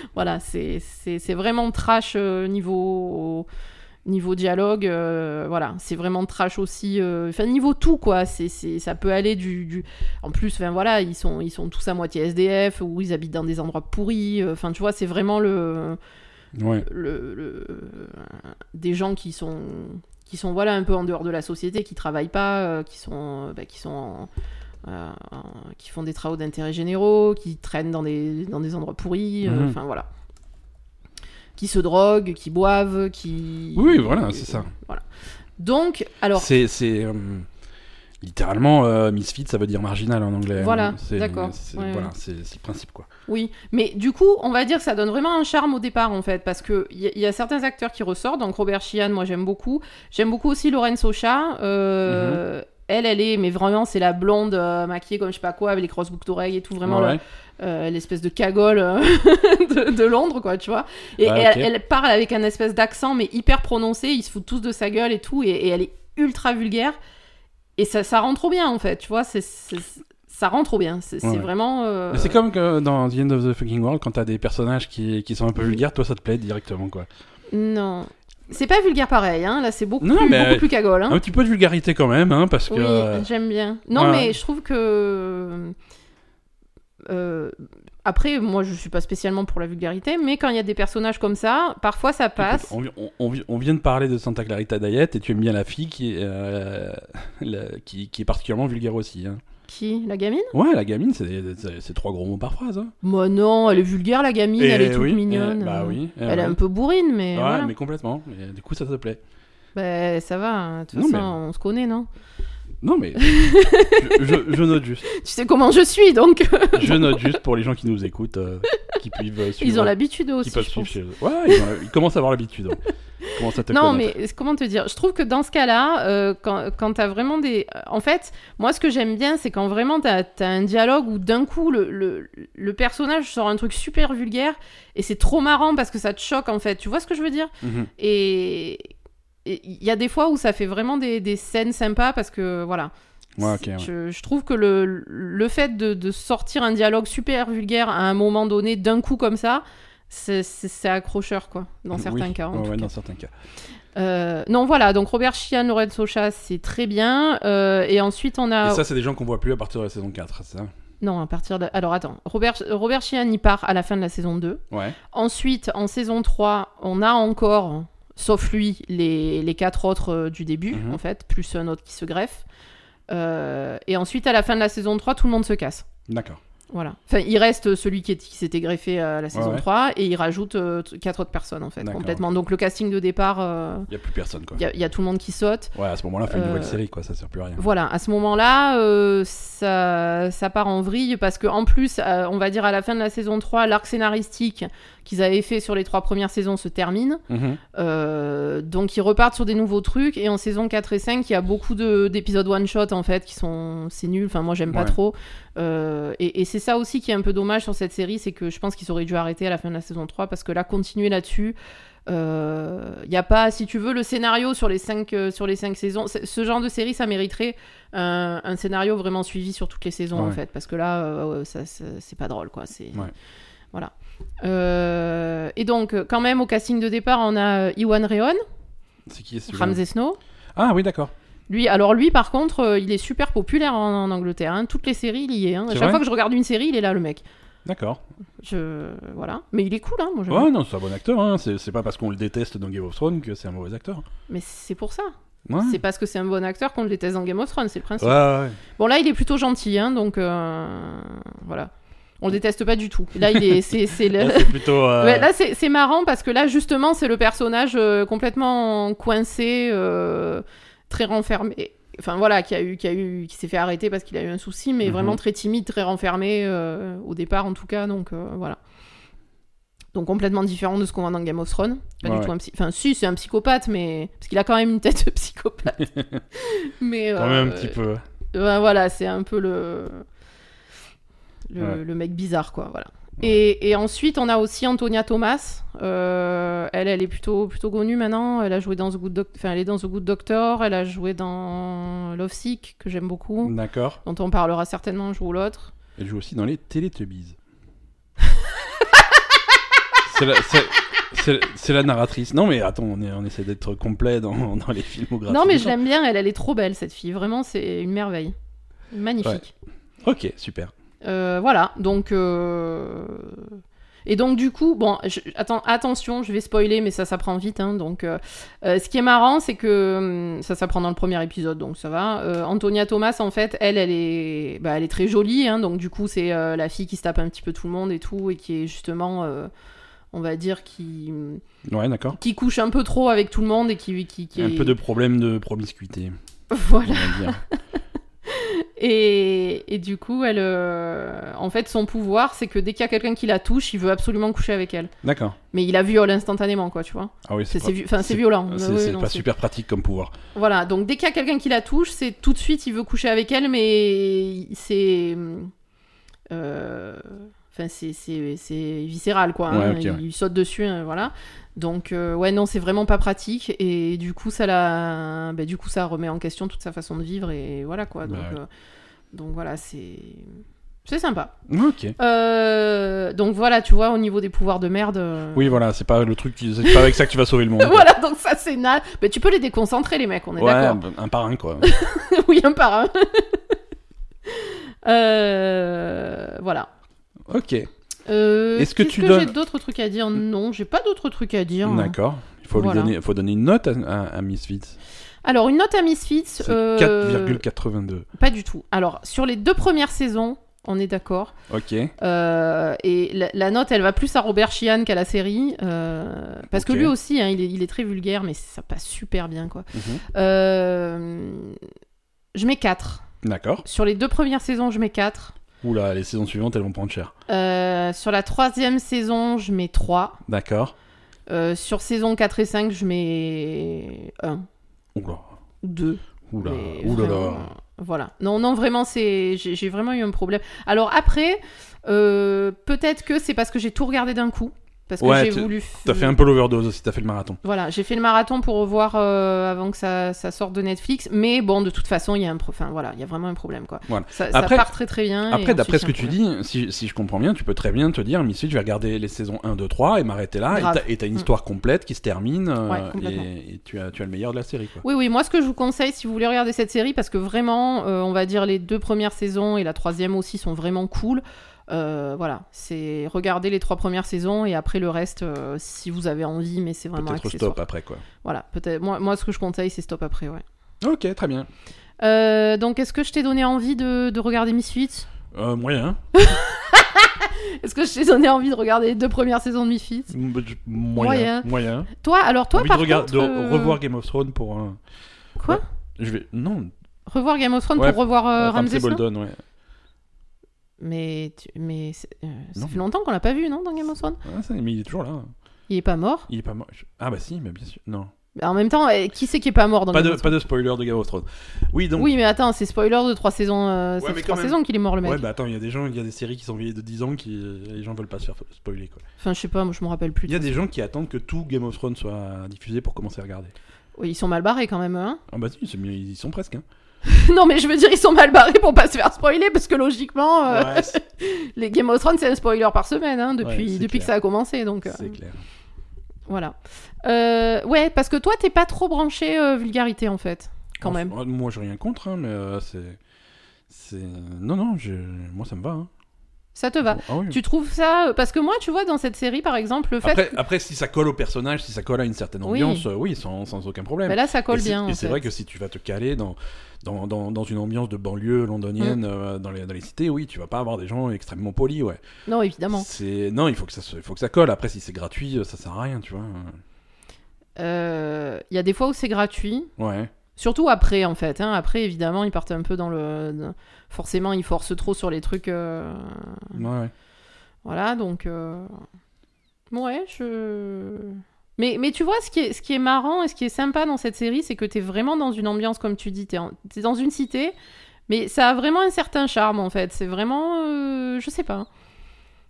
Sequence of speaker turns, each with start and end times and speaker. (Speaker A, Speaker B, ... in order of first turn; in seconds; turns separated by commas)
Speaker A: 0.1-3.5, Speaker A: 4.1-16.0, Speaker B: 16.6-16.9, Speaker A: 16.8-24.3, Speaker A: 24.8-30.1, Speaker B: 29.4-29.8, Speaker A: 31.6-35.0, Speaker B: 33.8-34.7, Speaker A: 35.6-36.5, Speaker B: 36.4-37.5, Speaker B: 38.2-43.1, Speaker A: 40.6-42.1, Speaker A: 43.3-67.0, Speaker B: 52.1-52.4, Speaker B: 56.8-57.2, Speaker B: 61.2-61.7, Speaker A: 67.8-72.4, Speaker B: 71.2-71.5, Speaker B: 72.1-77.1, Speaker A: 77.5-81.2, Speaker B: 80.0-83.3, Speaker A: 82.7-85.8, Speaker B: 83.9-84.4, Speaker A: 87.1-92.7, Speaker B: 92.4-99.4, Speaker A: 99.7-100.5, Speaker B: 100.5-102.9, Speaker A: 103.0-107.7, Speaker B: 104.6-106.6, Speaker B: 107.3-109.2, Speaker A: 109.8-112.1, Speaker B: 110.9-111.3, Speaker B: 112.8-113.3, Speaker A: 113.2-114.5, Speaker B: 113.9-115.1, Speaker A: 115.0-117.4, Speaker B: 116.8-122.8, Speaker A: 119.6-121.0, Speaker A: 123.2-138.9, Speaker B: 123.3-124.2, Speaker B: 137.6-137.9, Speaker A: 139.4-152.9, Speaker B: 143.4-143.9, Speaker B: 151.9-153.3, Speaker A: 154.0-158.8, Speaker B: 158.6-160.7, Speaker A: 161.0-172.4, Speaker B: 164.7-165.0, Speaker B: 170.7-171.0, Speaker A: 173.1-175.9, Speaker B: 176.1-176.4, Speaker A: 176.7-183.9, Speaker B: 179.3-179.7, Speaker B: 181.8-182.2, Speaker B: 183.9-184.6, Speaker A: 184.6-185.8, Speaker B: 185.7-187.7, Speaker A: 186.3-186.8, Speaker A: 187.6-197.2, Speaker B: 197.3-197.6, Speaker A: 197.7-211.6, Speaker B: 204.7-205.0, Speaker A: 212.1-223.1, Speaker A: 223.7-228.4, Speaker B: 229.1-229.8, Speaker A: 229.5-230.2, Speaker B: 230.6-231.1, Speaker A: 231.5-237.2, Speaker B: 235.7-236.0, Speaker B: 237.7-238.0, Speaker A: 238.4-240.5, Speaker B: 240.3-244.1, Speaker A: 244.3-268.6, Speaker B: 245.5-245.8, Speaker B: 248.0-248.6, Speaker B: 254.1-255.3, Speaker B: 264.8-265.2, Speaker A: 269.9-277.8, Speaker B: 272.0-272.3, Speaker B: 275.8-276.2, Speaker B: 277.2-278.0, Speaker A: 278.3-280.1, Speaker A: 281.5-295.7, Speaker B: 293.4-294.0, Speaker B: 296.0-297.4, Speaker B: 300.0-305.8, Speaker A: 305.3-308.4, Speaker A: 308.9-309.5, Speaker B: 310.0-310.7, Speaker A: 311.0-329.5, Speaker A: 330.1-331.4, Speaker B: 331.7-332.2, Speaker A: 332.1-334.8, Speaker B: 334.4-336.1, Speaker A: 336.5-337.6, Speaker B: 336.8-337.4, Speaker A: 338.3-344.9, Speaker B: 345.0-345.4, Speaker A: 345.5-349.3, Speaker B: 347.2-350.2, Speaker A: 350.4-355.5, Speaker A: 356.3-368.5, Speaker B: 359.5-360.0, Speaker B: 368.1-368.4, Speaker A: 369.1-371.3, Speaker B: 371.5-372.0, Speaker A: 372.0-375.6, Speaker B: 375.3-377.9, Speaker A: 376.6-380.8, Speaker B: 380.4-381.7, Speaker A: 381.6-383.6, Speaker A: 384.3-386.7, Speaker B: 387.3-387.7, Speaker A: 388.1-392.0, Speaker B: 388.6-389.3, Speaker B: 391.6-394.8, Speaker A: 392.5-392.9, Speaker A: 395.2-397.4, Speaker B: 396.4-398.1, Speaker A: 398.2-401.4, Speaker B: 401.5-401.9, Speaker A: 402.0-411.6, Speaker B: 406.5-406.9, Speaker B: 409.7-410.0, Speaker A: 412.4-413.1, Speaker B: 413.2-413.6, Speaker A: 413.6-415.4, Speaker B: 415.6-417.1, Speaker A: 417.3-420.2, Speaker B: 420.3-420.7, Speaker A: 421.3-424.5, Speaker B: 424.9-425.3, Speaker A: 425.6-436.2, Speaker B: 426.3-427.5, Speaker B: 435.0-437.4, Speaker A: 437.4-446.2, Speaker B: 443.9-444.7, Speaker B: 445.3-454.9, Speaker A: 450.5-451.3, Speaker A: 452.7-453.3, Speaker A: 454.8-467.6, Speaker B: 467.0-468.0, Speaker A: 468.2-470.4, Speaker B: 470.8-471.5, Speaker A: 472.0-475.1, Speaker B: 475.3-476.0, Speaker A: 476.1-480.1, Speaker B: 480.1-481.9, Speaker A: 481.0-483.8, Speaker B: 482.5-484.8, Speaker A: 485.4-485.6, Speaker B: 485.5-486.7, Speaker A: 487.1-489.0, Speaker B: 487.8-489.4, Speaker A: 490.8-494.2, Speaker B: 492.6-492.8, Speaker B: 494.2-495.3, Speaker A: 495.7-496.3, Speaker B: 496.3-498.1, Speaker A: 498.4-500.3, Speaker B: 499.9-502.1, Speaker A: 502.0-505.2, Speaker B: 504.0-509.0, Speaker A: 509.2-510.6, Speaker B: 510.3-513.5, Speaker A: 514.0-515.2, Speaker B: 515.3-516.6, Speaker A: 517.0-525.2, Speaker B: 520.5-521.0, Speaker B: 523.4-524.1, Speaker B: 524.9-525.4, Speaker A: 526.3-531.1, Speaker B: 530.8-533.0, Speaker B: 533.7-535.9, Speaker A: 536.5-540.4, Speaker B: 536.9-537.4, Speaker B: 540.0-552.0, Speaker A: 542.4-542.9, Speaker A: 544.1-545.2, Speaker A: 552.3-552.9, Speaker B: 552.7-556.6, Speaker A: 557.6-559.7, Speaker B: 559.8-560.1, Speaker A: 560.4-566.6, Speaker B: 566.5-566.9, Speaker A: 567.6-568.8, Speaker A: 569.7-577.5, Speaker A: 578.1-581.7